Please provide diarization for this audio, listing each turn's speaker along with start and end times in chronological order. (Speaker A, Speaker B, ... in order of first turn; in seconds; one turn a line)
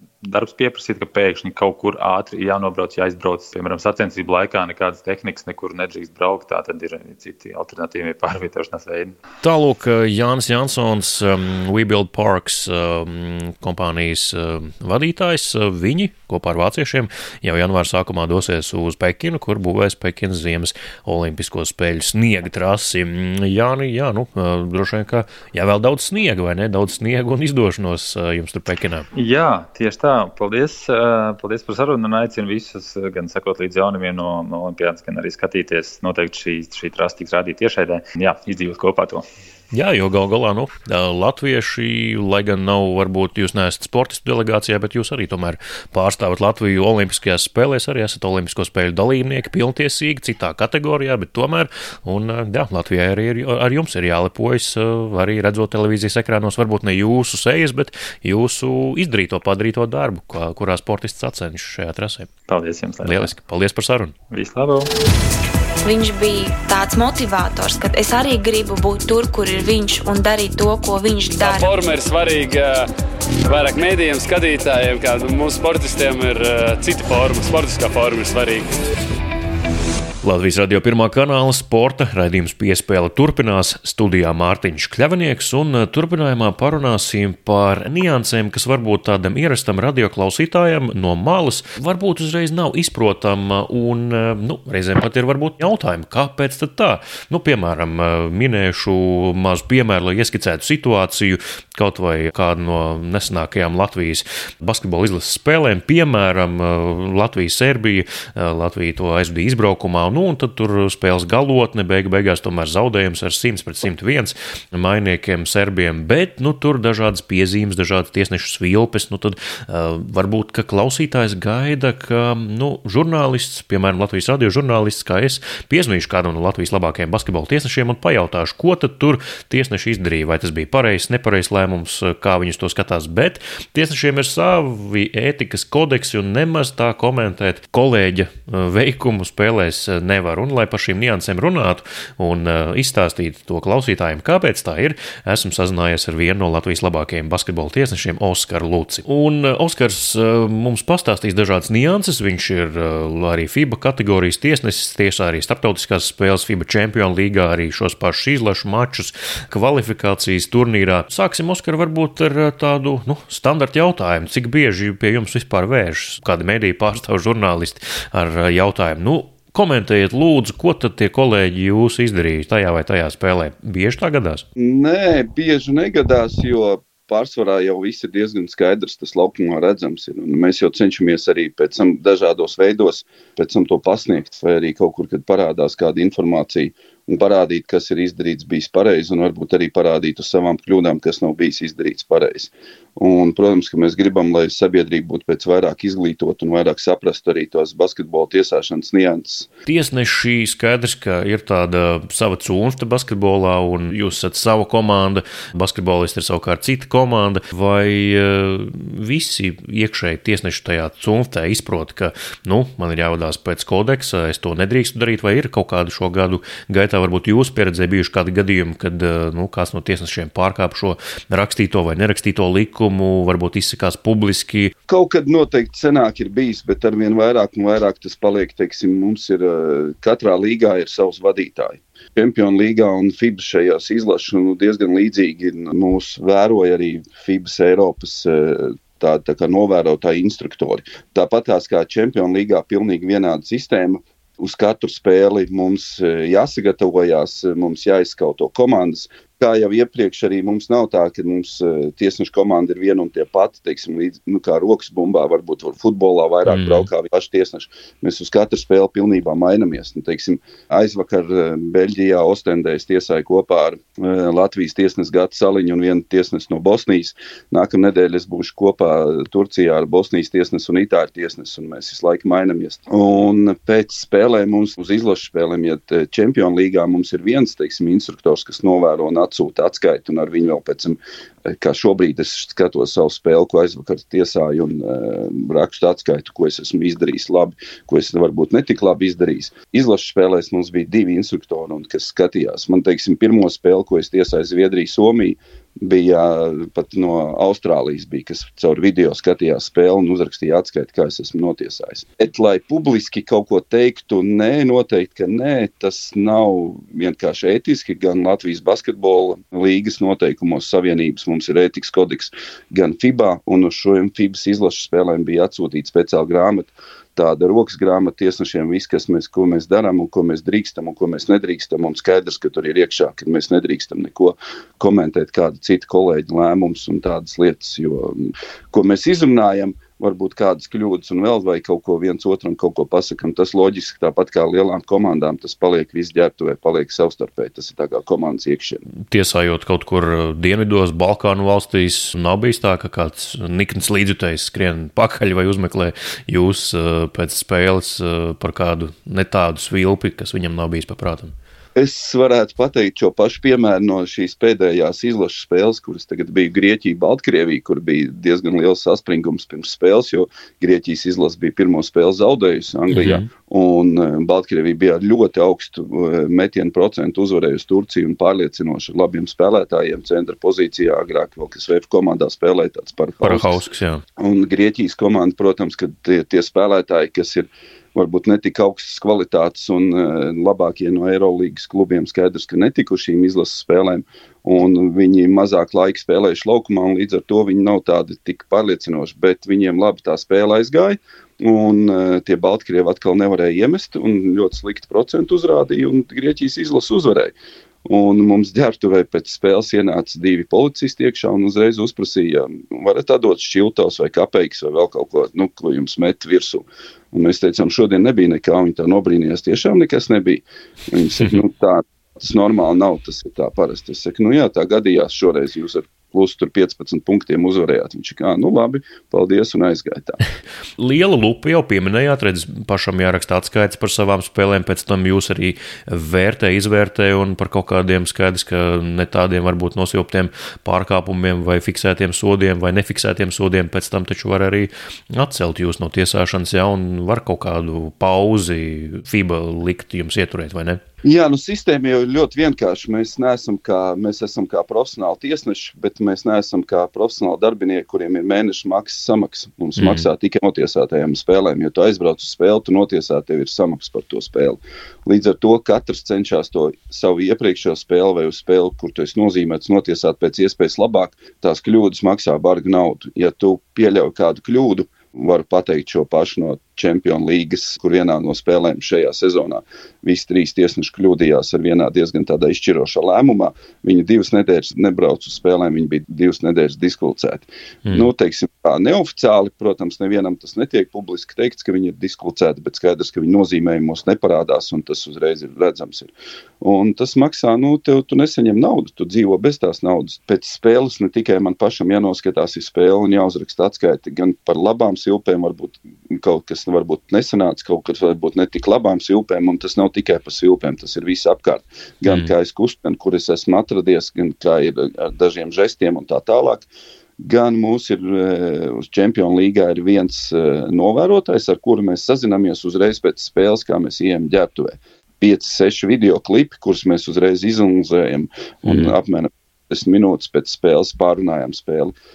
Speaker A: 0.2-9.2
Speaker B: 9.4-29.1
Speaker A: 29.1-39.2
Speaker B: 39.7-62.3
Speaker A: 62.5-63.3
Speaker B: 63.0-64.1
Speaker A: 64.3-64.9
Speaker C: 65.8-71.7
Speaker D: 71.4-72.9
Speaker D: 73.5-78.7
Speaker B: 80.2-174.4
Speaker E: 174.6-199.5
Speaker B: 199.7-224.7
Speaker E: 224.9-338.9
Speaker B: 256.5-256.9
Speaker B: 339.1-351.4
Speaker E: 351.8-373.6
Speaker B: 362.9-363.3
Speaker B: 373.2-374.0
Speaker E: 374.2-397.3
Speaker E: 397.9-420.2
Speaker B: 420.8-440.8
Speaker E: 441.0-486.1
Speaker B: 449.8-450.1
Speaker E: 486.6-506.7
Speaker B: 502.1-502.3
Speaker E: 507.2-521.9
Speaker B: 518.7-519.0